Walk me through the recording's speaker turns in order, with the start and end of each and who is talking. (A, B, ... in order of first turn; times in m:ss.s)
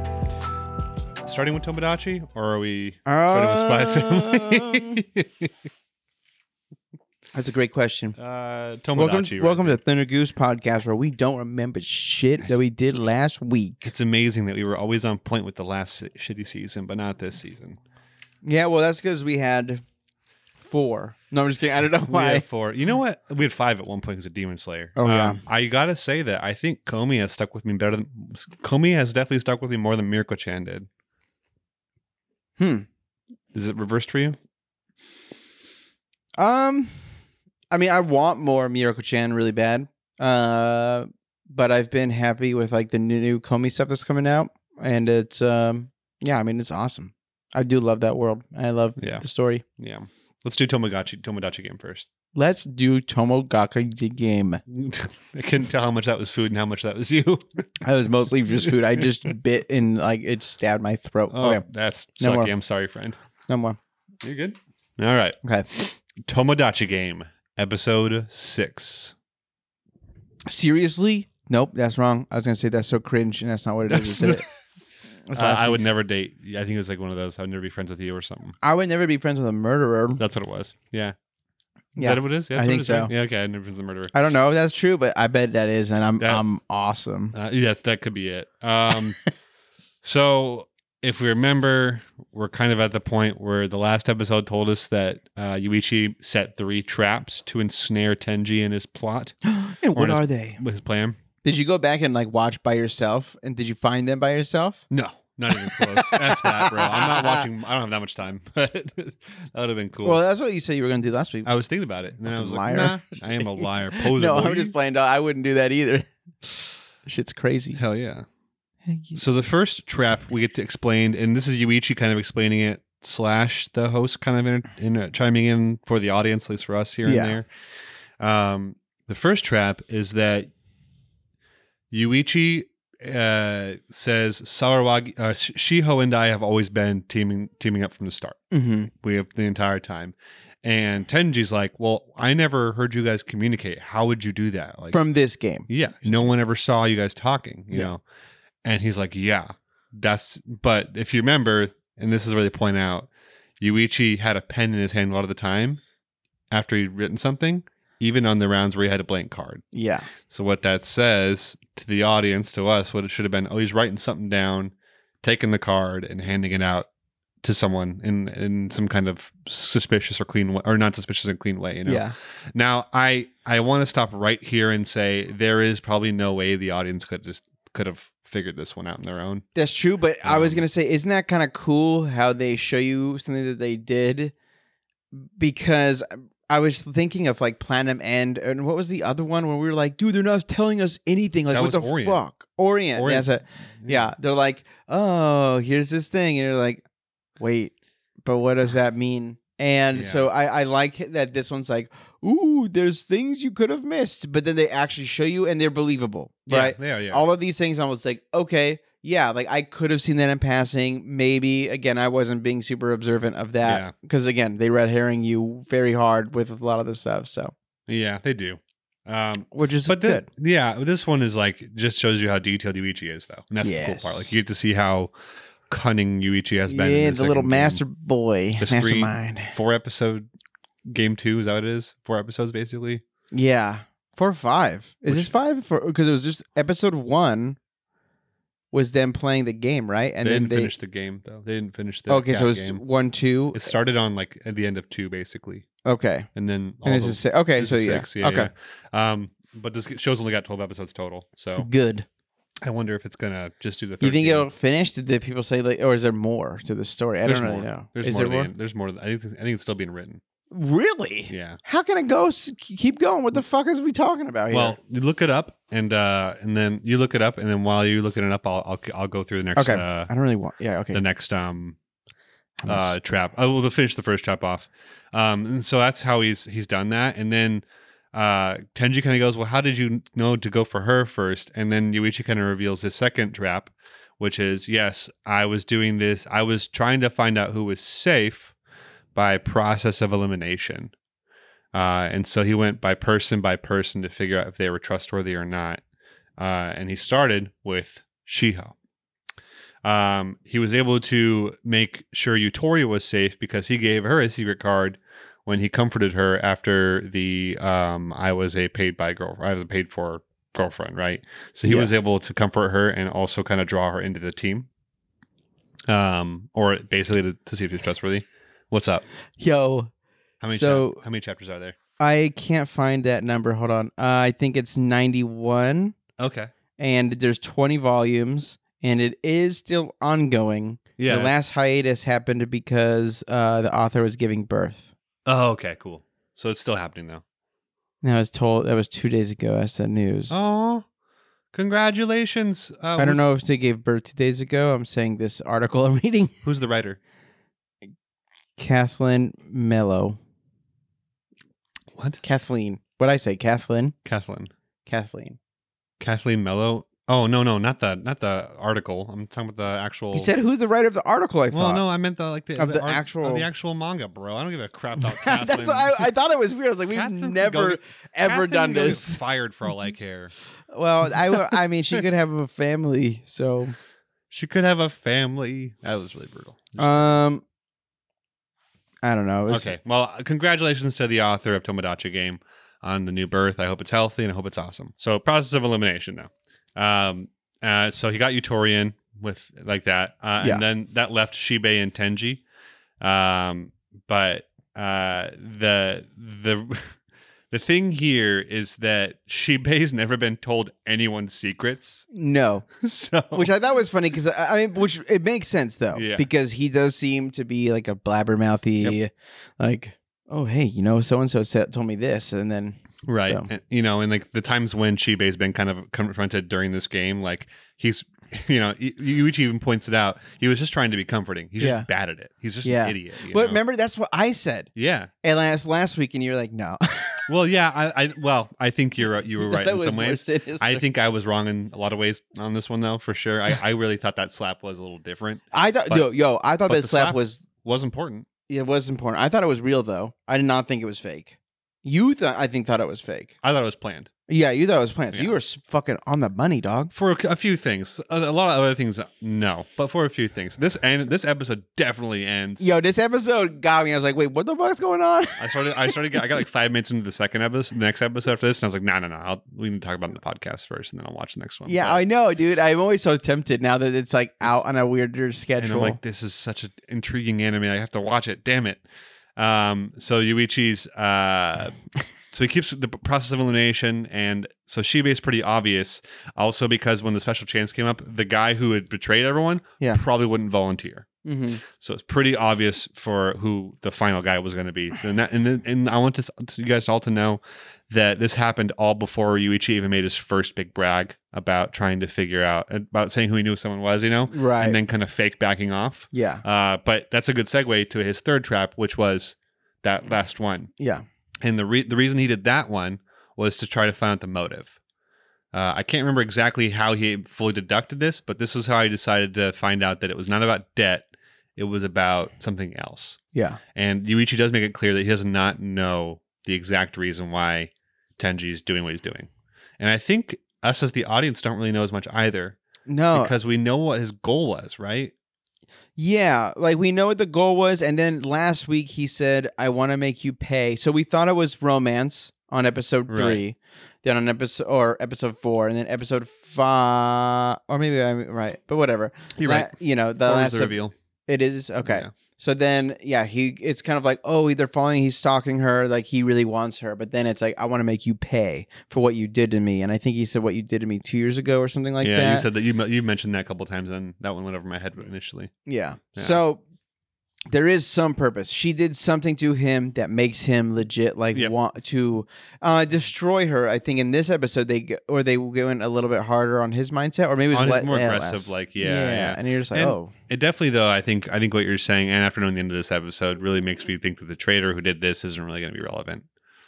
0:01.2-0:05.5 A
0:03.1-0:05.0 B
0:07.3-0:08.2 B
0:08.2-0:09.8 A
0:09.0-0:13.9 B
0:13.8-0:17.8 A
0:18.4-0:19.8 B
0:20.6-0:22.4 B
0:22.1-0:30.9 A
0:25.0-0:25.4 B
0:32.6-0:32.9 B
0:33.5-0:34.4 A
0:36.4-0:37.0 B
0:37.7-0:49.6 B
0:49.0-0:49.2 A
0:49.8-0:52.1 A
0:52.4-0:54.6 B
0:54.7-0:57.6 A
0:57.8-1:01.6 B
0:58.7-0:59.0 A
1:01.3-1:03.2 A
1:02.2-1:02.5 B
1:03.5-1:03.8 B
1:04.2-1:09.1 A
1:10.5-1:14.4 B
1:13.9-1:14.4 A
1:15.3-1:15.9 B
1:15.3-1:18.6 A
1:18.6-1:20.2 B
1:20.2-1:21.2 A
1:22.0-1:23.1 B
1:22.0-1:24.1 A
1:24.1-1:27.4 B
1:27.3-1:29.2 A
1:30.0-1:39.4 A
1:39.4-1:40.6 B
1:39.9-1:41.2 A
1:41.4-1:44.8 B
1:44.9-1:50.2 A
1:45.5-1:47.5 B
1:50.0-1:51.5 B
1:51.4-1:54.7 A
1:52.2-1:57.8 B
1:57.8-1:58.3 A
1:58.9-1:59.2 B
1:59.2-2:07.5 A
2:07.0-2:07.4 B
2:08.2-2:10.5 A
2:11.9-2:18.4 A
2:18.5-2:18.9 B
2:18.9-2:25.0 A
2:24.9-2:26.1 B
2:25.7-2:28.0 A
2:28.6-2:33.1 A
2:33.6-2:35.8 A
2:36.5-2:39.6 A
2:39.7-2:40.1 B
2:40.3-2:46.9 A
2:47.4-2:59.4 A
2:51.9-2:52.1 B
2:59.6-3:04.3 B
3:00.2-3:00.6 A
3:05.1-3:16.8 B
3:11.5-3:12.2 A
3:13.0-3:13.3 A
3:13.8-3:14.1 A
3:17.4-3:17.7 B
3:18.3-3:37.5 B
3:19.9-3:20.3 A
3:26.5-3:27.2 A
3:33.6-3:33.9 A
3:37.9-3:45.1 A
3:39.5-3:40.3 B
3:43.6-3:44.3 B
3:45.7-3:47.8 A
3:46.7-3:49.6 B
3:48.6-3:50.3 A
3:50.9-3:53.0 A
3:53.3-3:57.6 B
3:55.1-3:55.3 A
3:58.7-4:00.7 B
4:00.2-4:02.8 A
4:02.1-4:03.7 B
4:03.5-4:05.7 A
4:05.8-4:06.3 B
4:06.4-4:11.7 A
4:06.8-4:08.5 B
4:11.6-4:12.1 B
4:12.6-4:14.5 A
4:14.0-4:18.5 B
4:17.3-4:20.2 A
4:20.5-4:24.8 B
4:21.3-4:21.6 A
4:24.5-4:30.1 A
4:29.6-4:31.0 B
4:30.9-4:31.8 A
4:32.6-4:32.9 B
4:32.6-4:48.5 A
4:49.2-4:50.9 A
4:51.7-4:55.8 A
4:56.4-4:58.8 A
4:59.8-5:14.7 A
5:11.7-5:11.9 B
5:15.9-5:19.0 A
5:19.4-5:19.9 B
5:20.4-5:21.8 A
5:20.5-5:21.0 B
5:22.0-5:26.0 B
5:26.2-5:26.5 A
5:26.8-5:34.9 B
5:31.0-5:31.4 A
5:35.3-5:37.2 A
5:38.0-5:40.3 B
5:40.3-5:40.9 A
5:41.5-5:43.3 A
5:43.0-5:46.4 B
5:46.4-5:47.0 A
5:48.6-5:50.2 B
5:52.0-5:52.2 A
5:52.2-5:54.0 B
5:54.0-5:54.5 A
5:54.9-5:55.4 B
5:56.0-6:00.3 A
6:00.1-6:01.8 B
6:01.5-6:06.1 A
6:02.6-6:03.5 B
6:05.0-6:09.2 B
6:06.9-6:10.3 A
6:10.7-6:13.8 B
6:11.1-6:11.6 A
6:14.3-6:17.2 A
6:16.8-6:17.4 B
6:19.0-6:19.7 B
6:19.5-6:32.4 A
6:33.0-6:37.0 A
6:37.5-6:42.1 A
6:42.1-6:42.7 B
6:42.8-6:43.5 A
6:43.3-6:53.5 B
6:45.9-6:46.3 A
6:53.1-7:03.6 A
7:01.6-7:01.9 B
7:02.6-7:04.7 B
7:04.8-7:05.1 A
7:05.2-7:07.3 B
7:07.3-7:16.1 A
7:09.4-7:10.9 B
7:15.5-7:17.4 B
7:16.7-7:18.3 A
7:18.5-7:23.3 B
7:23.4-7:24.1 A
7:24.3-7:26.9 B
7:26.9-7:32.7 A
7:32.6-7:36.0 B
7:35.4-7:42.0 A
7:41.7-7:46.0 B
7:45.6-7:48.8 A
7:49.4-7:51.8 A
7:52.3-8:01.1 A
8:01.2-8:01.6 B
8:01.6-8:20.7 A
8:14.3-8:14.8 B
8:16.1-8:16.4 B
8:20.8-8:21.0 B
8:21.4-8:24.8 A
8:25.5-8:33.2 A
8:33.3-8:33.6 B
8:33.8-8:42.6 A
8:42.9-8:43.3 B
8:43.1-8:45.1 A
8:46.0-9:12.5 B
8:53.1-8:53.4 A
8:59.4-8:59.7 A
9:00.2-9:00.9 A
9:12.0-9:15.5 A
9:15.7-9:16.6 B
9:16.2-9:16.4 A
9:17.5-9:30.1 B
9:27.5-9:36.2 A